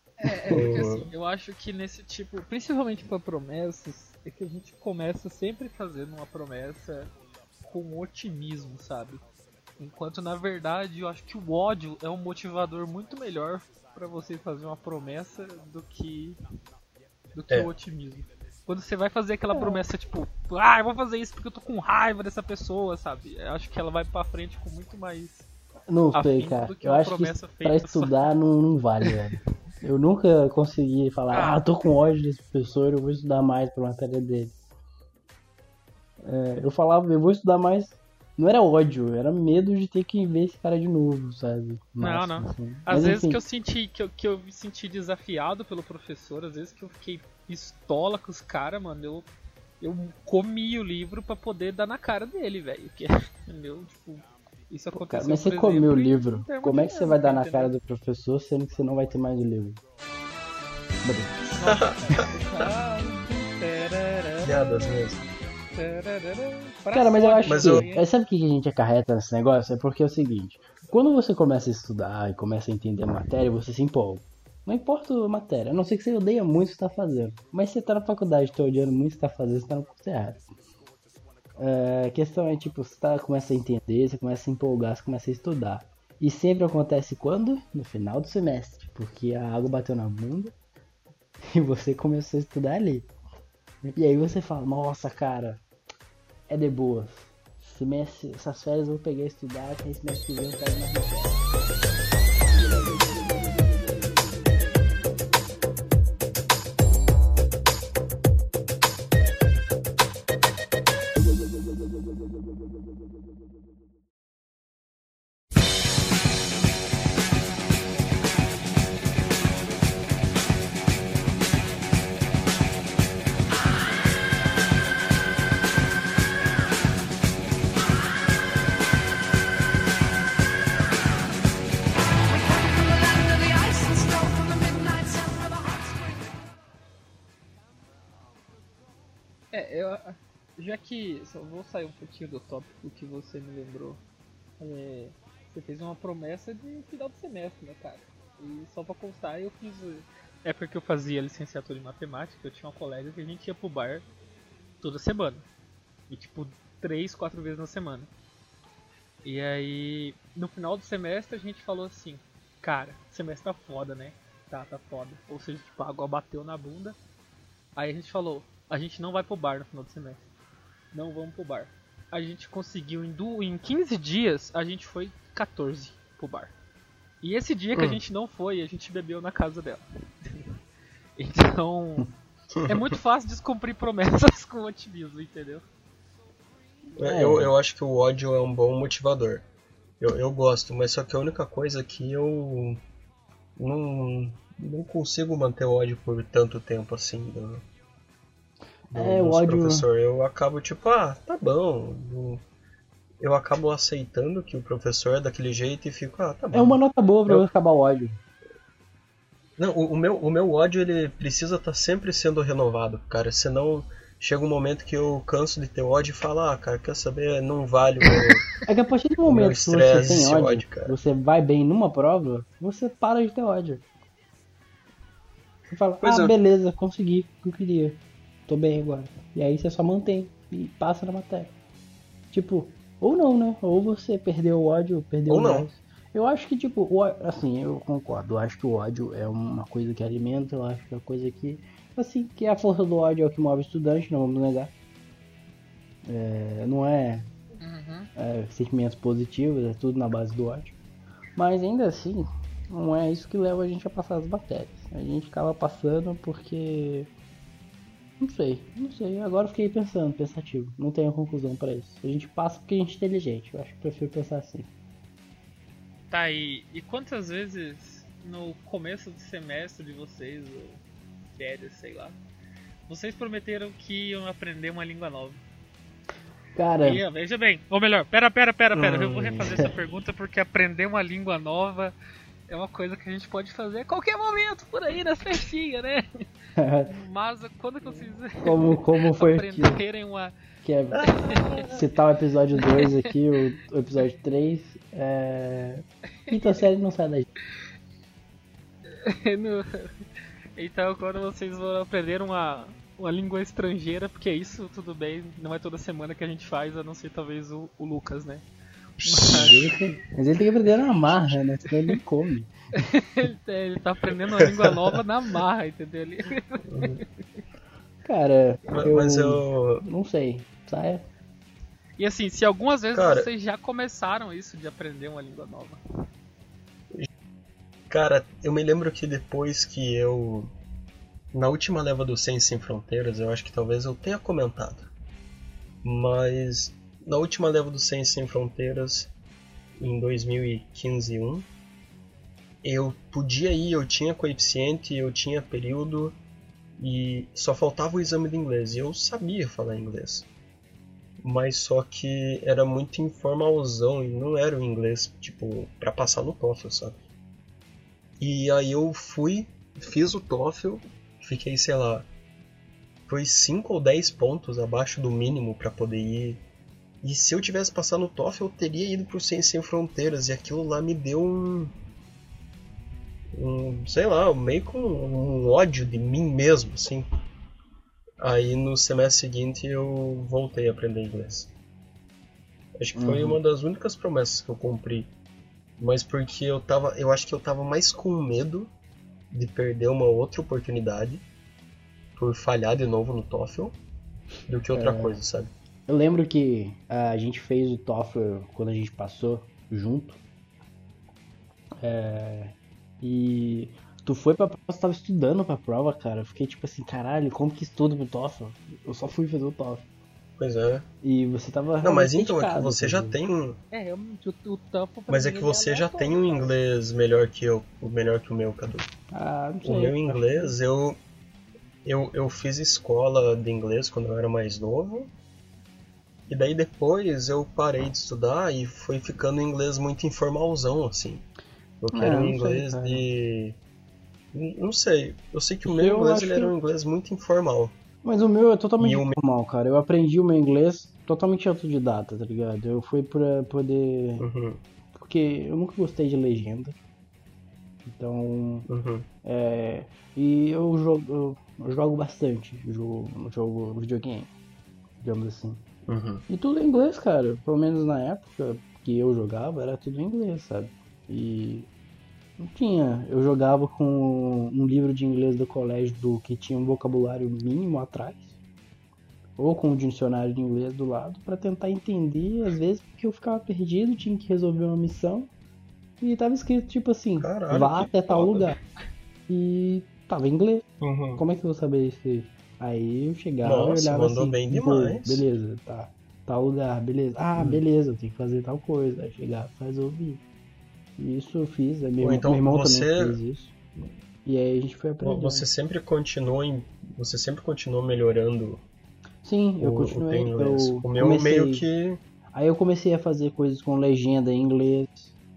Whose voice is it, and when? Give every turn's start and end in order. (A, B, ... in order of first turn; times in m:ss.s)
0:00.2-0:07.1 A
0:00.4-0:01.1 B
0:07.6-0:09.2 A
0:09.8-0:16.4 A
0:17.3-0:25.5 A
0:19.5-0:19.8 C
0:25.9-0:34.5 C
0:26.1-0:28.3 A
0:31.3-0:31.6 A
0:36.2-0:43.4 C
0:42.0-0:49.3 A
0:49.8-0:57.7 A
0:54.9-0:59.8 C
1:01.0-1:01.6 C
1:01.5-1:05.2 A
1:01.6-1:02.3 B
1:04.4-1:05.2 B
1:05.7-1:08.1 A
1:06.9-1:20.4 C
1:07.4-1:07.9 B
1:21.6-1:30.5 C
1:31.4-1:33.1 C
1:33.8-1:35.6 C
1:36.5-1:41.5 C
2:19.5-2:24.0 A
2:24.6-2:34.0 A
2:34.8-2:35.4 A
2:36.1-2:38.1 A
2:39.2-2:47.0 A
2:47.8-2:50.2 A
2:50.9-2:56.5 A
2:57.2-3:00.5 A
3:01.2-3:02.1 A
3:02.5-3:02.8 B
3:02.6-3:05.6 A
3:07.0-3:09.4 B
3:07.0-3:07.5 C
3:10.0-3:12.8 B
3:13.6-3:17.6 B
3:18.9-3:19.9 C
3:18.9-3:22.4 B
3:23.2-3:27.5 B
3:26.5-3:28.2 C
3:29.6-3:38.5 B
3:38.6-3:43.8 C
3:39.2-3:40.9 B
3:45.7-3:51.5 C
3:46.0-3:46.3 B
3:52.3-4:04.7 C
3:55.3-3:55.7 B
4:06.0-4:07.3 C
4:07.6-4:08.1 A
4:08.2-4:10.7 C
4:11.4-4:17.1 C
4:18.2-4:24.7 C
4:26.1-4:30.8 A
4:31.4-4:32.2 A
4:32.9-4:35.4 A
4:36.5-4:37.0 C
4:36.8-4:41.9 A
4:38.7-4:39.6 B
4:42.5-4:46.0 A
4:46.6-4:46.9 C
4:46.9-4:50.3 A
4:48.4-4:49.8 C
4:50.6-4:57.3 C
4:51.0-4:51.8 A
4:52.6-4:53.0 A
4:59.0-4:59.9 A
5:00.6-5:08.4 A
5:09.0-5:09.9 A
5:09.1-5:09.5 B
5:09.3-5:12.5 C
5:12.8-5:17.0 A
5:16.7-5:17.0 B
5:18.0-5:21.0 C
5:18.7-5:19.8 B
5:22.0-5:25.8 A
5:22.9-5:23.3 B
5:27.9-5:30.5 B
5:31.3-5:34.9 B
5:35.8-5:39.1 B
5:39.8-5:41.5 B
5:42.6-5:46.2 B
5:46.8-5:50.3 B
5:51.2-5:57.0 B
5:58.2-6:02.1 B
6:03.1-6:06.4 B
6:07.0-6:11.7 B
6:13.3-6:17.1 B
6:18.2-6:21.5 B
6:22.8-6:25.1 B
6:22.9-6:23.4 C
6:25.8-6:28.7 B
6:29.3-6:31.2 B
6:32.2-6:33.8 B
6:34.5-6:35.5 B
6:34.7-6:35.2 C
6:35.9-6:40.2 C
6:41.8-6:49.9 C
6:50.4-6:50.8 B
6:51.0-6:53.2 C
6:51.8-6:53.6 B
6:53.7-6:56.5 A
6:55.1-6:58.9 B
6:59.1-7:00.5 C
6:59.6-7:01.0 B
7:01.8-7:05.1 B
7:06.3-7:11.2 B
7:11.8-7:13.6 B
7:11.9-7:13.0 C
7:14.3-7:17.7 B
7:15.6-7:16.5 C
7:18.0-7:24.3 C
7:18.8-7:19.2 B
7:24.2-7:24.6 B
7:24.9-7:26.8 C
7:27.8-7:28.7 C
7:28.7-7:29.1 B
7:29.2-7:34.3 C
7:35.0-7:35.6 C
7:35.9-7:36.2 B
7:36.3-7:41.7 C
7:42.4-7:48.3 C
7:49.4-7:55.3 C
7:56.0-7:58.6 C
7:57.2-7:58.6 B
7:59.3-8:00.6 C
8:00.8-8:01.2 B
8:01.2-8:10.2 C
8:03.4-8:05.2 B
8:07.4-8:07.6 B
8:11.0-8:13.5 C
8:12.0-8:13.2 B
8:14.2-8:15.5 C
8:15.0-8:18.6 B
8:19.2-8:21.6 C
8:19.6-8:22.0 B
8:22.3-8:25.1 C